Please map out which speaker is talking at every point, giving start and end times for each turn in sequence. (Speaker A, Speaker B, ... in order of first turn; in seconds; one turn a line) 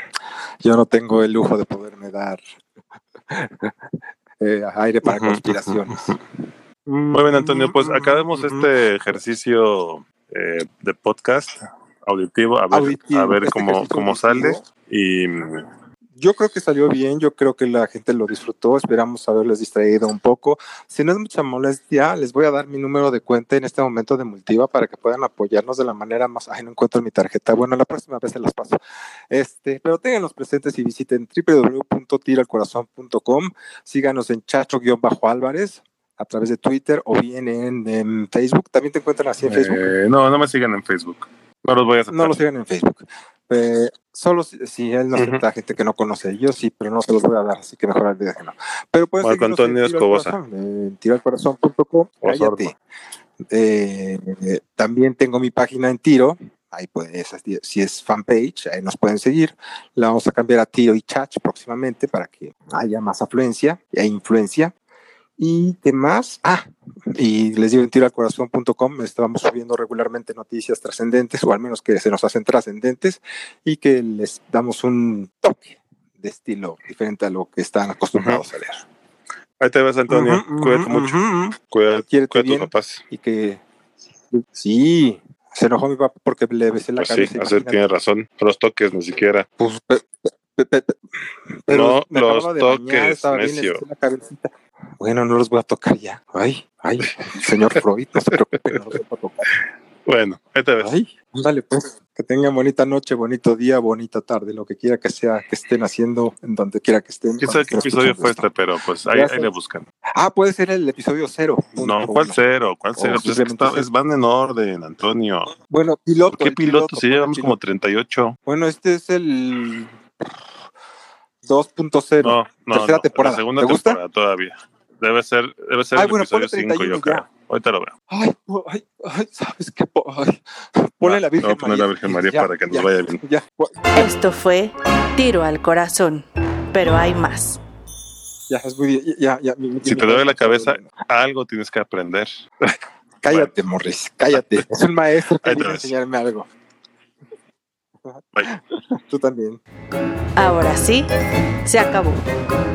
Speaker A: 0.6-2.4
Speaker A: 3.3-3.7
Speaker A: 4.4-6.2
Speaker B: 5.0-6.2
Speaker A: 6.9-8.7
Speaker B: 7.1-15.7
Speaker A: 12.7-14.7
Speaker A: 16.2-28.8
Speaker A: 29.3-39.9
Speaker B: 39.4-42.4
Speaker A: 42.1-52.8
Speaker B: 45.1-45.4
Speaker B: 49.2-50.4
Speaker B: 52.2-52.7
Speaker A: 53.5-64.7
Speaker A: 65.4-78.8
Speaker B: 78.2-78.4
Speaker B: 79.6-81.2
Speaker A: 80.1-81.6
Speaker B: 81.7-83.0
Speaker A: 82.1-83.6
Speaker A: 84.3-87.8
Speaker B: 87.0-89.5
Speaker A: 89.6-99.5
Speaker B: 91.7-93.8
Speaker B: 98.7-99.0
Speaker B: 100.1-100.9
Speaker A: 100.8-108.5
Speaker B: 107.4-109.8
Speaker A: 109.1-109.5
Speaker A: 110.2-112.4
Speaker B: 111.8-115.5
Speaker A: 113.0-113.9
Speaker A: 115.7-117.6
Speaker B: 116.3-118.4
Speaker A: 118.5-120.0
Speaker A: 121.5-124.0
Speaker B: 122.2-127.9
Speaker A: 126.0-127.3
Speaker A: 128.1-133.9
Speaker B: 131.0-133.2
Speaker C: 134.0-137.6
Speaker A: 138.5-140.9
Speaker B: 139.8-142.3
Speaker A: 143.2-146.5
Speaker B: 143.3-143.5
Speaker B: 144.3-144.7
Speaker B: 145.4-145.9
Speaker A: 148.1-149.6
Speaker C: 150.4-151.1
Speaker C: 151.7-152.2